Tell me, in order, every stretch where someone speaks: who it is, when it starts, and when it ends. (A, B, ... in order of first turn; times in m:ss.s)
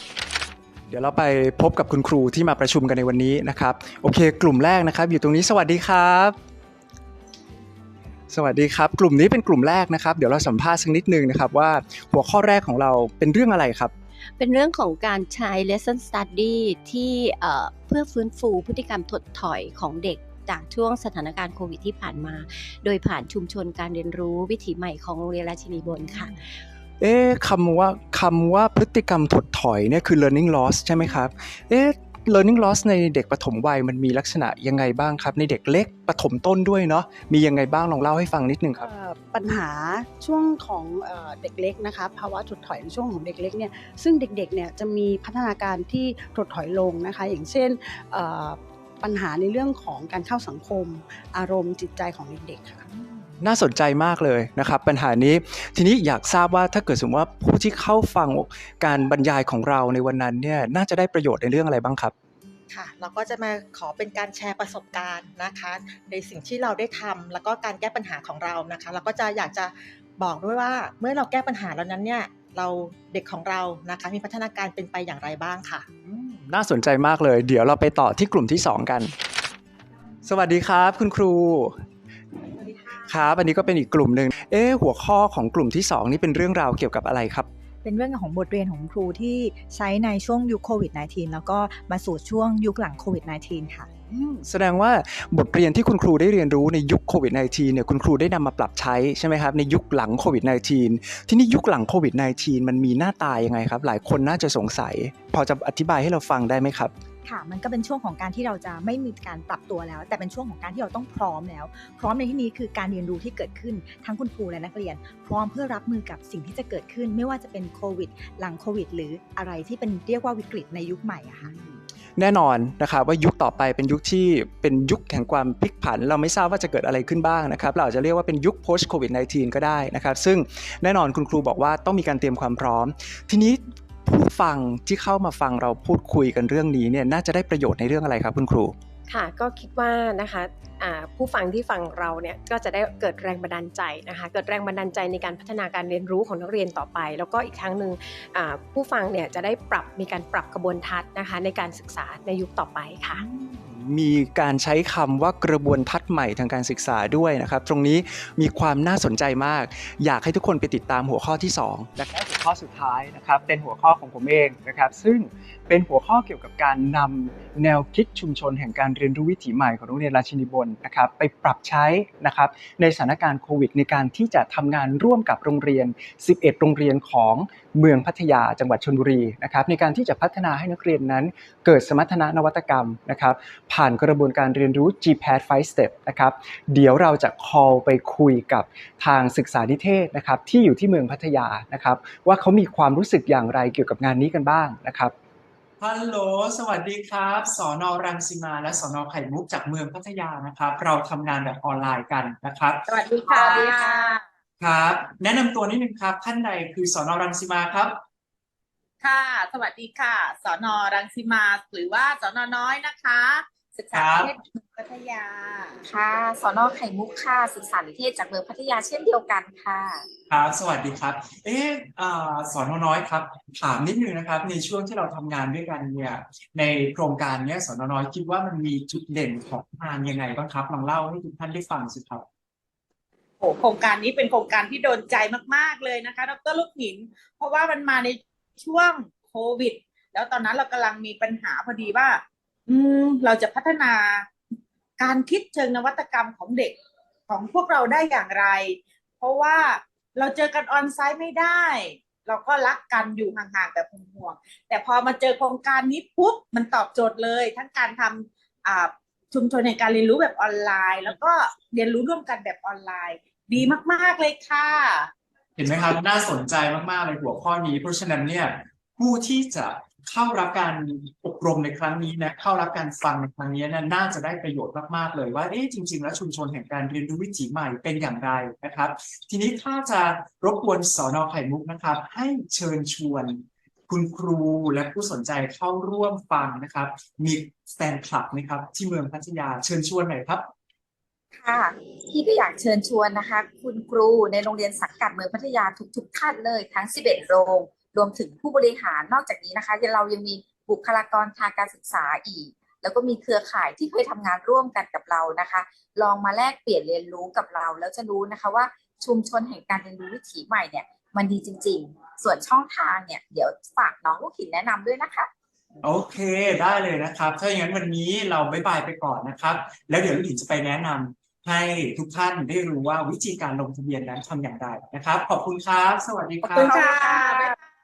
0:00.9-0:06.4 A
0:08.3-0:13.9 A
0:14.4-0:26.4 B
0:27.0-0:38.9 A
0:38.8-0:52.9 C
0:53.4-1:02.1 A
1:02.7-1:09.7 D
1:10.3-1:15.8 D
1:16.1-1:19.1 A
1:20.2-1:21.8 A
1:23.0-1:27.5 A
1:27.8-1:33.9 E
1:34.1-1:46.9 A
1:47.2-2:01.5 E
2:02.2-2:18.8 A
2:19.1-2:33.2 F
2:33.1-3:15.1 A
3:15.8-3:22.9 G
3:22.9-3:24.2 H
3:23.2-3:24.2 I
3:24.6-3:28.0 G
3:29.0-3:35.8 H
3:33.9-3:34.4 G
3:35.8-3:40.0 I
3:40.3-3:52.2 G
3:53.4-4:04.3 H
4:05.0-4:06.8 H
4:07.3-4:25.1 H
4:25.6-4:50.5 G
4:51.4-5:15.3 I
5:15.8-5:26.7 G
5:26.5-5:27.6 H
5:26.6-5:27.6 I